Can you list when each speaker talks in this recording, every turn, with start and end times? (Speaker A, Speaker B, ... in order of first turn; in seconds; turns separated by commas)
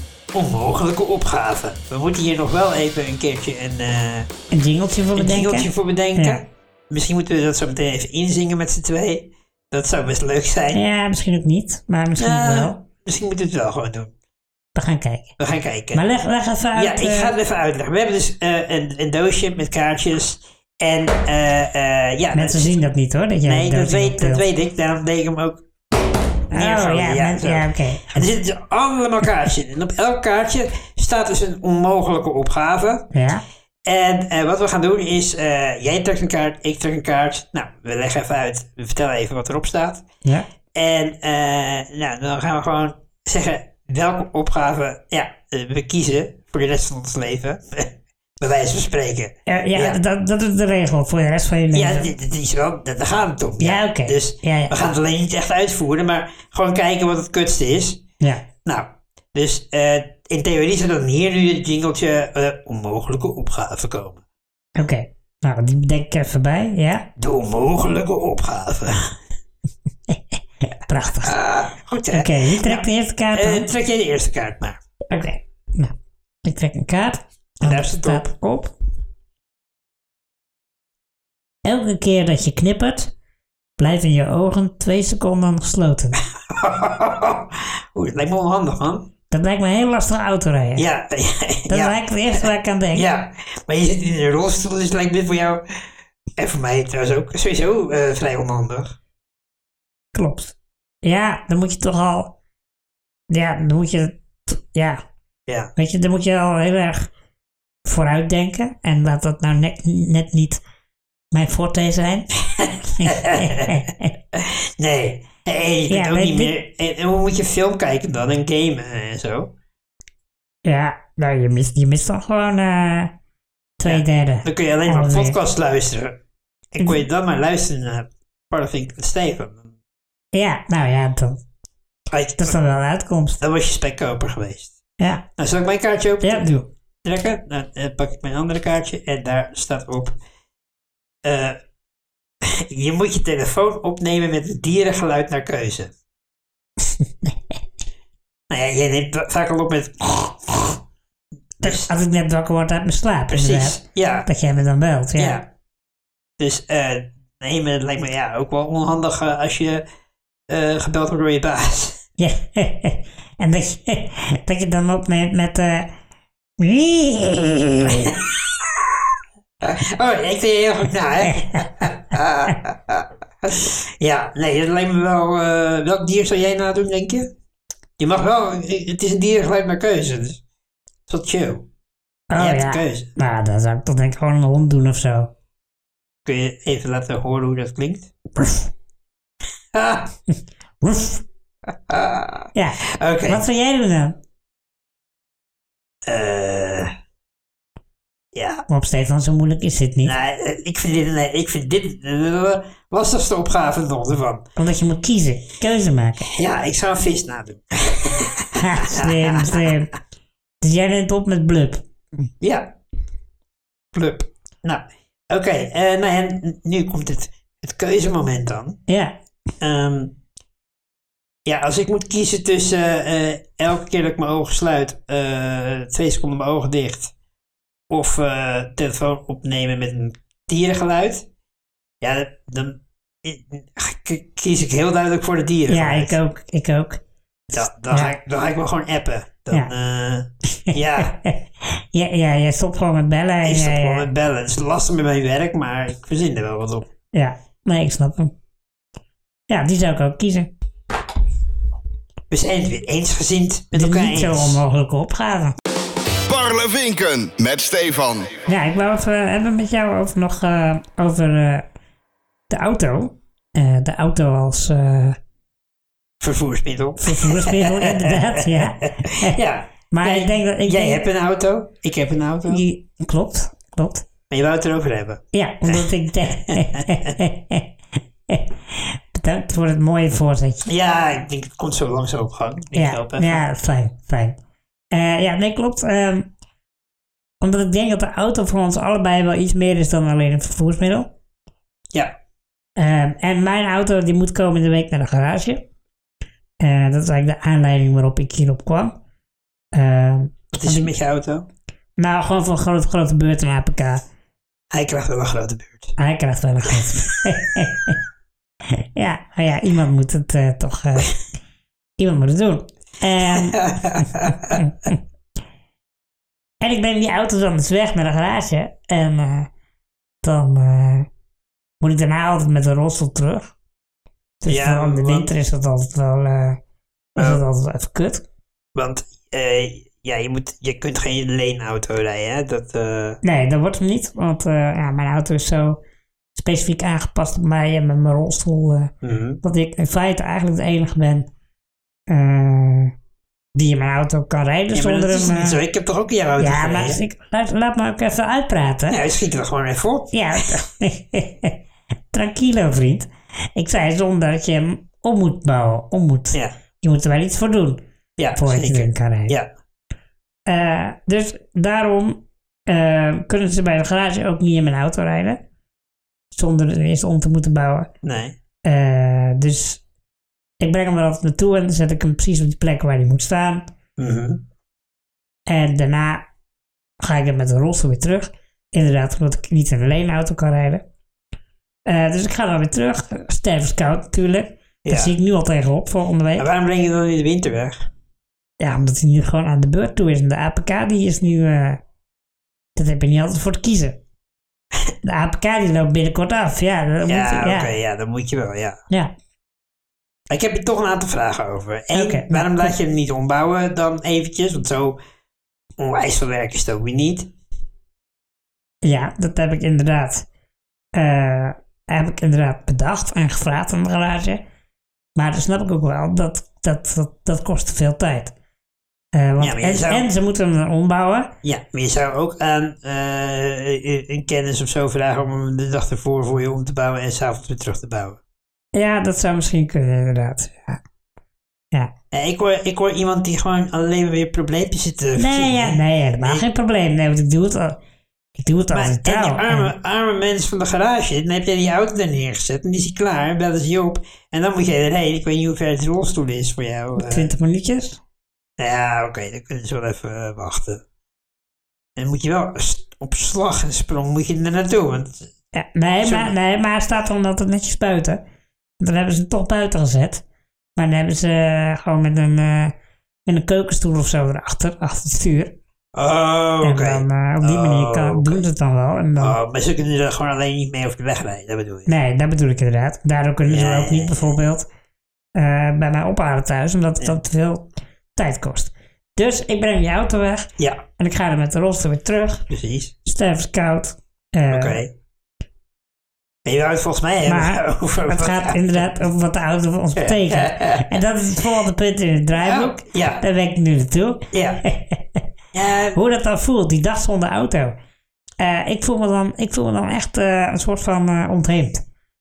Speaker A: 0.3-4.3, Speaker B: 4.5-6.4, Speaker A: 5.1-10.8, Speaker B: 10.7-12.7, Speaker A: 12.2-14.1, Speaker B: 14.8-15.3, Speaker A: 15.4-16.0, Speaker B: 15.9-17.3, Speaker A: 16.7-22.8, Speaker B: 22.3-24.4, Speaker A: 23.4-25.6, Speaker A: 26.5-33.1, Speaker B: 26.5-28.2, Speaker B: 33.1-33.4, Speaker A: 33.9-40.1, Speaker A: 40.7-50.0, Speaker B: 49.5-52.1, Speaker A: 51.7-58.0, Speaker B: 53.6-54.7, Speaker B: 58.2-58.5, Speaker A: 58.6-64.2, Speaker B: 64.8-67.1, Speaker A: 67.2-69.1, Speaker B: 70.1-71.4, Speaker A: 71.2-74.8, Speaker B: 72.1-73.7, Speaker B: 75.1-78.7, Speaker A: 77.6-78.2, Speaker B: 81.6-83.1, Speaker B: 83.8-86.2, Speaker A: 86.5-89.1, Speaker B: 89.3-90.9, Speaker A: 90.8-99.0, Speaker B: 91.7-93.1, Speaker B: 100.1-102.3, Speaker B: 103.3-105.0, Speaker B: 105.8-107.1, Speaker B: 107.8-110.6, Speaker B: 111.3-112.3, Speaker A: 112.5-119.5, Speaker B: 112.8-114.1, Speaker B: 115.9-116.5, Speaker B: 120.6-123.1, Speaker B: 123.8-125.4, Speaker A: 123.8-126.2, Speaker A: 126.7-129.7, Speaker B: 130.3-131.4, Speaker A: 132.1-132.6, Speaker B: 132.4-133.4, Speaker A: 133.4-134.8, Speaker B: 135.0-135.2, Speaker A: 135.4-136.5, Speaker B: 136.2-136.7, Speaker A: 137.0-140.2, Speaker A: 141.2-141.6, Speaker A: 142.4-145.9, Speaker A: 148.5-150.8, Speaker A: 151.6-151.9, Speaker B: 151.6-155.4, Speaker A: 153.3-154.3, Speaker A: 155.2-155.5, Speaker A: 156.4-159.8, Speaker A: 160.5-162.0, Speaker B: 162.2-165.9, Speaker B: 166.6-168.1, Speaker A: 167.9-168.8, Speaker A: 169.6-177.3, Speaker B: 171.5-171.9, Speaker A: 178.0-180.4, Speaker A: 181.1-181.7, Speaker B: 182.3-185.3, Speaker A: 182.3-183.1, Speaker A: 186.2-188.1, Speaker A: 189.7-190.1, Speaker B: 190.3-191.2, Speaker A: 191.9-193.4, Speaker B: 192.5-194.2, Speaker A: 196.1-196.9, Speaker A: 198.3-198.7, Speaker B: 198.7-200.1, Speaker A: 200.0-204.5, Speaker B: 204.6-206.3, Speaker A: 206.2-209.8, Speaker B: 208.6-209.9, Speaker B: 210.6-211.8, Speaker A: 212.4-212.7, Speaker A: 213.9-218.8, Speaker B: 218.9-219.2, Speaker A: 219.6-220.1, Speaker A: 221.4-227.1, Speaker A: 227.9-231.2, Speaker A: 232.0-236.2, Speaker B: 235.7-237.0, Speaker A: 237.5-241.2, Speaker B: 237.9-238.1, Speaker B: 240.6-244.1, Speaker A: 243.4-246.9, Speaker B: 247.1-248.3, Speaker B: 249.5-250.5, Speaker A: 252.3-254.6, Speaker B: 253.7-255.6, Speaker C: 256.3-258.4, Speaker B: 258.5-261.6, Speaker B: 262.5-265.2, Speaker A: 266.2-272.6, Speaker B: 267.0-269.4, Speaker B: 269.9-271.1, Speaker B: 272.5-274.1, Speaker A: 274.3-277.1, Speaker B: 275.3-277.7, Speaker B: 278.3-280.7, Speaker A: 280.6-283.4, Speaker B: 282.8-284.4, Speaker B: 284.9-286.3, Speaker B: 287.4-291.1, Speaker B: 292.8-295.6, Speaker B: 296.6-299.0, Speaker B: 299.7-300.9, Speaker A: 300.5-301.5, Speaker B: 302.0-304.0, Speaker A: 304.7-306.0, Speaker B: 306.0-308.0, Speaker B: 308.7-311.1, Speaker B: 312.0-315.0, Speaker A: 313.4-314.6, Speaker B: 316.6-319.5, Speaker B: 320.2-321.1, Speaker B: 321.8-323.5, Speaker B: 324.4-326.6, Speaker A: 324.5-325.3, Speaker B: 327.1-328.2, Speaker A: 327.2-327.4, Speaker A: 328.8-333.2, Speaker B: 333.2-335.8, Speaker B: 336.4-341.3, Speaker A: 339.0-339.4, Speaker B: 342.1-342.9, Speaker B: 343.5-345.6, Speaker A: 344.7-347.0, Speaker B: 346.4-349.0, Speaker A: 348.9-350.5, Speaker B: 350.1-351.6, Speaker B: 352.1-357.8, Speaker A: 358.2-359.5, Speaker B: 358.4-359.4, Speaker B: 360.5-365.4, Speaker B: 366.3-367.9, Speaker A: 368.0-368.4, Speaker B: 368.6-369.8, Speaker B: 370.6-373.6, Speaker A: 374.0-374.4, Speaker B: 375.5-376.2, Speaker B: 377.0-380.8, Speaker B: 381.9-386.5, Speaker A: 384.8-385.1, Speaker A: 386.4-387.9, Speaker B: 388.6-391.8, Speaker B: 392.8-394.0, Speaker B: 395.0-397.7, Speaker A: 397.0-398.8, Speaker A: 400.3-405.0, Speaker B: 401.9-402.7, Speaker A: 405.8-407.3, Speaker B: 408.8-410.2, Speaker B: 410.9-414.4, Speaker B: 415.1-418.3, Speaker B: 419.1-421.3, Speaker A: 419.4-420.1, Speaker A: 421.4-428.2, Speaker B: 428.7-430.8, Speaker A: 432.1-436.4, Speaker B: 435.1-437.8, Speaker B: 438.4-439.7, Speaker A: 438.7-447.3, Speaker B: 447.0-448.0, Speaker A: 448.6-450.8, Speaker A: 452.0-455.3, Speaker B: 455.5-458.2, Speaker A: 456.0-456.3, Speaker B: 458.8-460.2, Speaker B: 460.8-462.8, Speaker B: 463.2-465.6, Speaker A: 465.9-468.4, Speaker B: 466.6-469.4, Speaker A: 469.2-471.9, Speaker B: 471.9-474.7, Speaker A: 473.5-474.3, Speaker B: 475.3-482.5, Speaker A: 480.6-480.8, Speaker A: 482.5-482.9, Speaker B: 483.0-484.8, Speaker A: 484.5-484.9, Speaker A: 486.4-488.8, Speaker B: 487.2-495.2, Speaker A: 489.9-491.0, Speaker A: 492.3-493.2, Speaker A: 494.3-494.6, Speaker A: 495.5-496.0, Speaker B: 495.9-497.8, Speaker B: 498.4-501.8